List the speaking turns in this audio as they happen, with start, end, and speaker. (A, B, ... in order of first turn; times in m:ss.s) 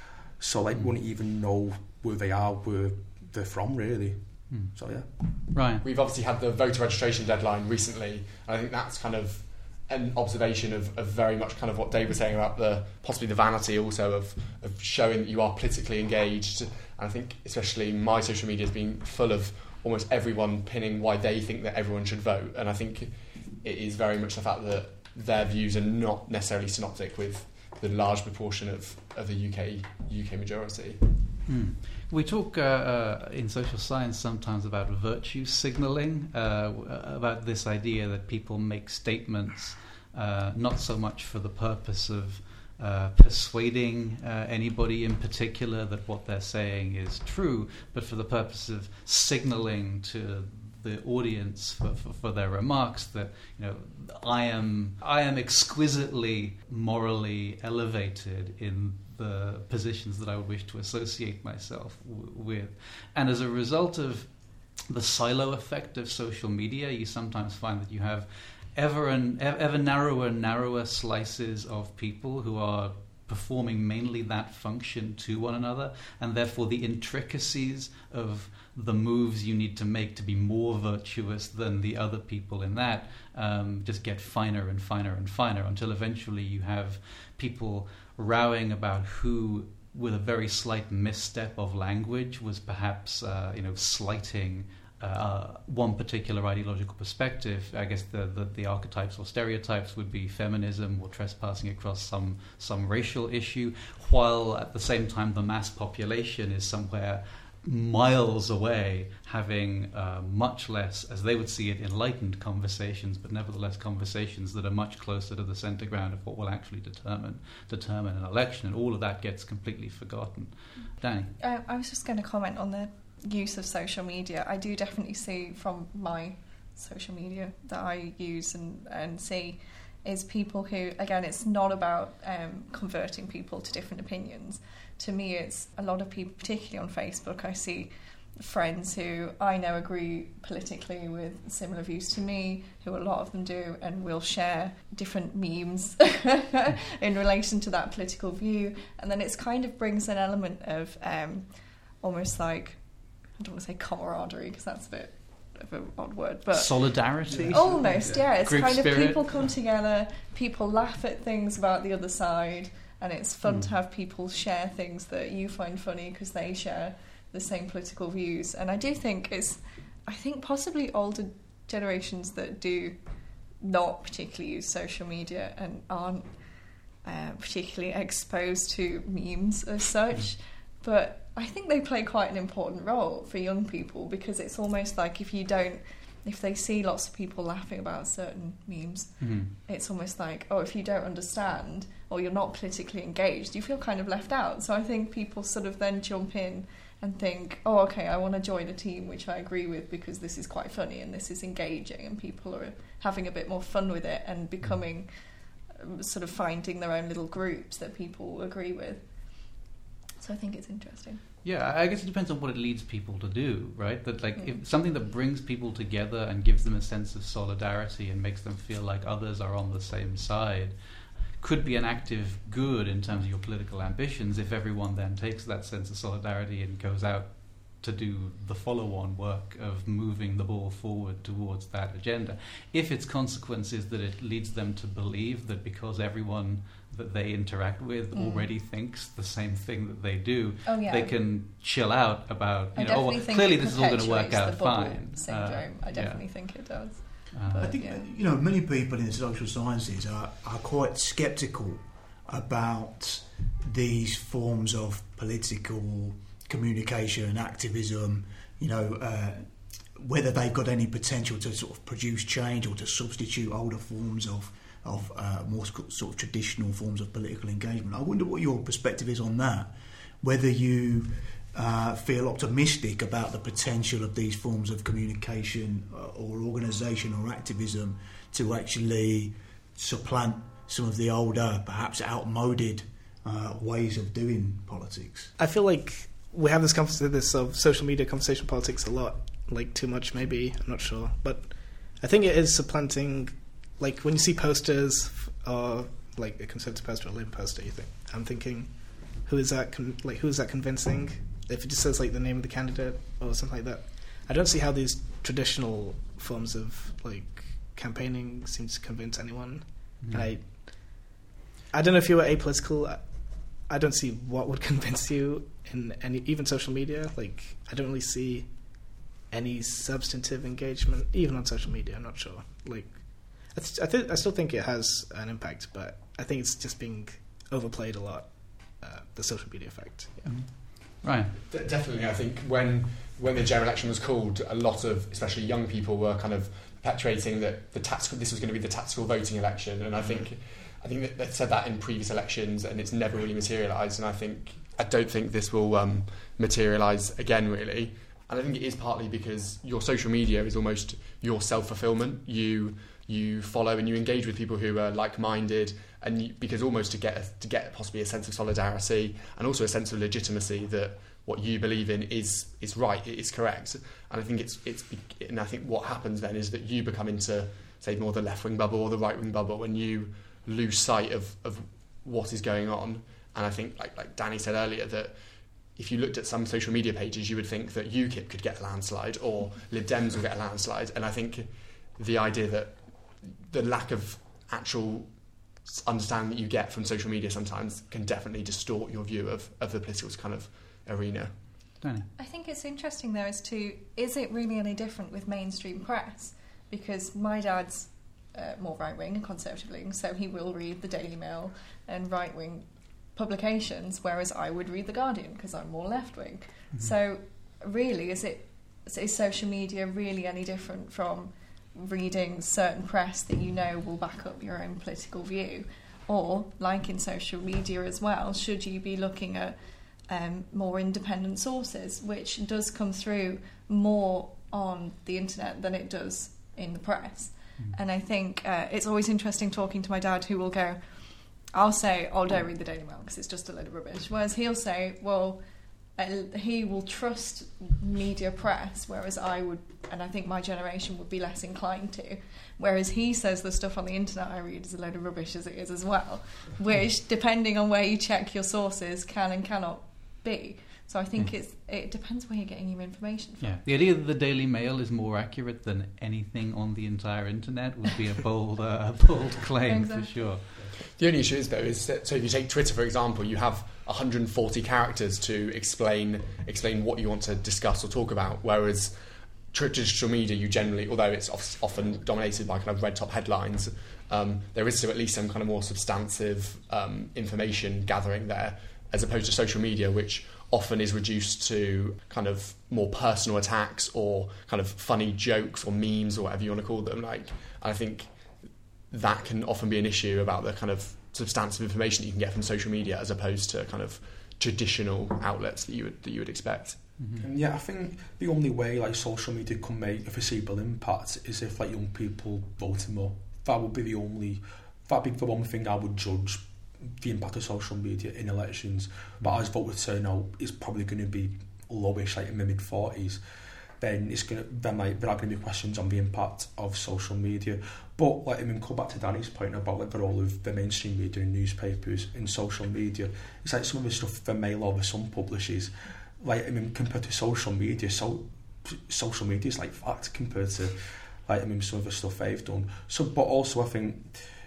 0:00.4-0:05.1 A
0:04.5-0:04.8 B
0:05.4-0:05.8 B
0:05.8-0:31.1 C
0:31.5-2:01.3 B
2:01.4-2:53.0 D
2:36.5-2:39.4 B
2:37.3-2:38.3 A
2:43.4-2:43.7 B
2:53.6-3:25.1 D
3:09.2-3:09.5 B
3:25.6-3:31.2 D
3:31.4-3:40.8 B
3:41.4-4:06.3 B
3:58.1-3:58.5 D
4:00.7-4:01.2 D
4:02.8-4:08.0 D
4:07.3-4:07.7 B
4:07.6-4:45.3 E
4:45.4-5:11.2 F
5:10.0-5:10.3 B
5:11.7-5:30.5 F
5:30.2-5:31.3 B
5:31.5-6:15.2 C
6:15.8-6:31.4 C
6:31.8-6:32.1 B
6:32.2-7:15.4 D
7:16.0-7:33.6 D
7:33.4-7:40.5 B
7:39.7-7:40.2 D
7:40.8-7:49.0 C
7:49.5-8:08.2 C
8:08.9-8:17.0 C
8:17.0-8:17.3 B
8:17.2-8:33.2 A
8:33.8-8:54.2 A